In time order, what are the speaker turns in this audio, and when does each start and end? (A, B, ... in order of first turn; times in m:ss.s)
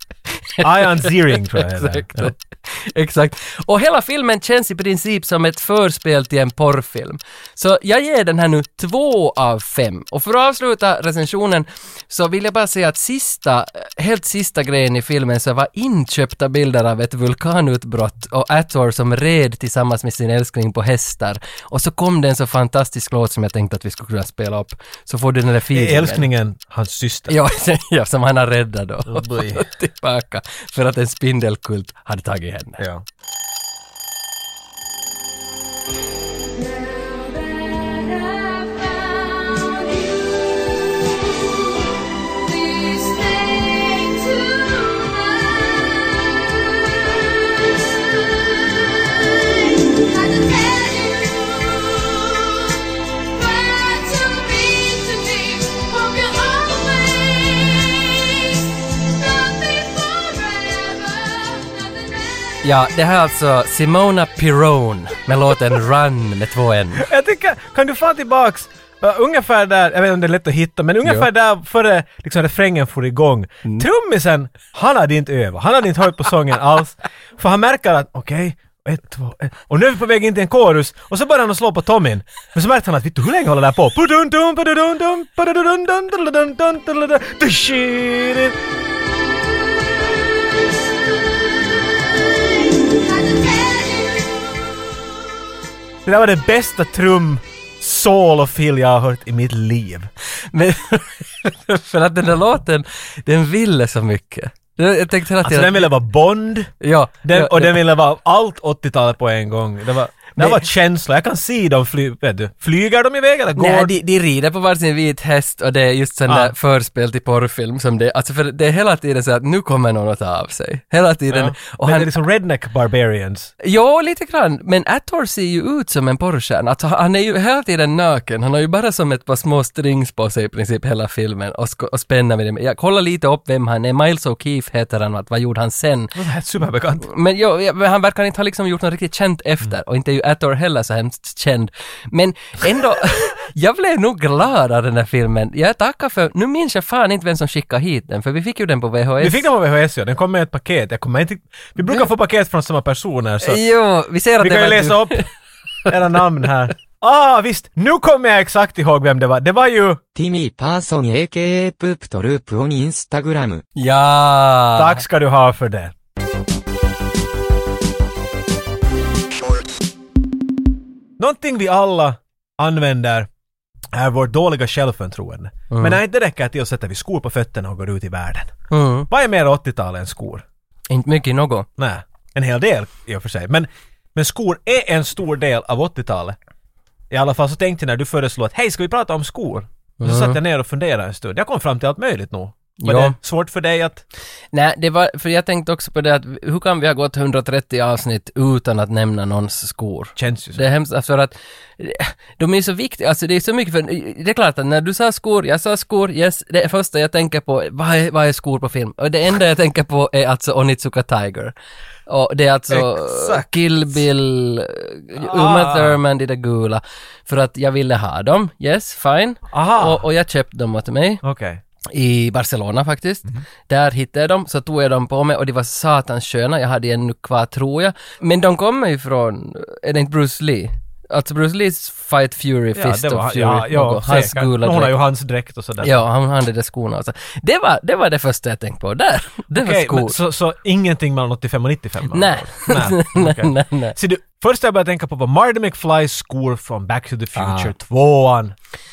0:00.4-0:26.3 A
0:00.6-0:02.4 B
0:25.7-0:27.4 B
0:27.3-0:32.8 A
0:29.1-0:29.7 B
0:32.8-0:33.0 B
0:42.6-0:44.2 A
0:53.9-0:57.3 A
1:02.6-1:07.1 A
1:07.0-1:28.6 B
1:36.0-1:40.1 B
1:40.4-1:45.9 A
1:45.4-1:46.7 B
1:46.8-1:47.8 A
1:47.2-1:54.0 B
1:50.4-1:50.6 A
1:53.6-2:02.1 A
1:56.3-1:56.5 B
2:01.3-2:03.5 B
2:03.6-2:16.2 A
2:16.2-2:17.1 B
2:17.0-2:29.5 A
2:29.2-2:33.6 B
2:33.4-2:35.2 A
2:34.4-2:35.3 B
2:35.9-2:40.0 B
2:40.2-2:43.6 C
2:43.8-2:45.0 A
2:44.8-2:45.9 B
2:51.2-2:53.3 B
2:53.9-2:58.6 B
2:55.7-2:56.0 A
2:58.7-2:59.1 A
2:59.1-3:00.4 B
3:00.9-3:01.7 A
3:01.8-3:06.4 B
3:07.1-3:14.0 B
3:10.0-3:10.4 A
3:12.8-3:13.2 A
3:14.5-3:31.5 A
3:20.2-3:20.6 B
3:32.1-3:41.2 A
3:32.7-3:33.5 B
3:35.2-3:36.0 B
3:39.5-3:40.0 B
3:41.2-3:41.6 B
3:41.9-3:55.0 A
3:52.8-3:56.0 B
3:55.8-4:00.2 A
3:59.5-4:08.6 B
4:02.1-4:04.0 A
4:07.4-4:07.7 A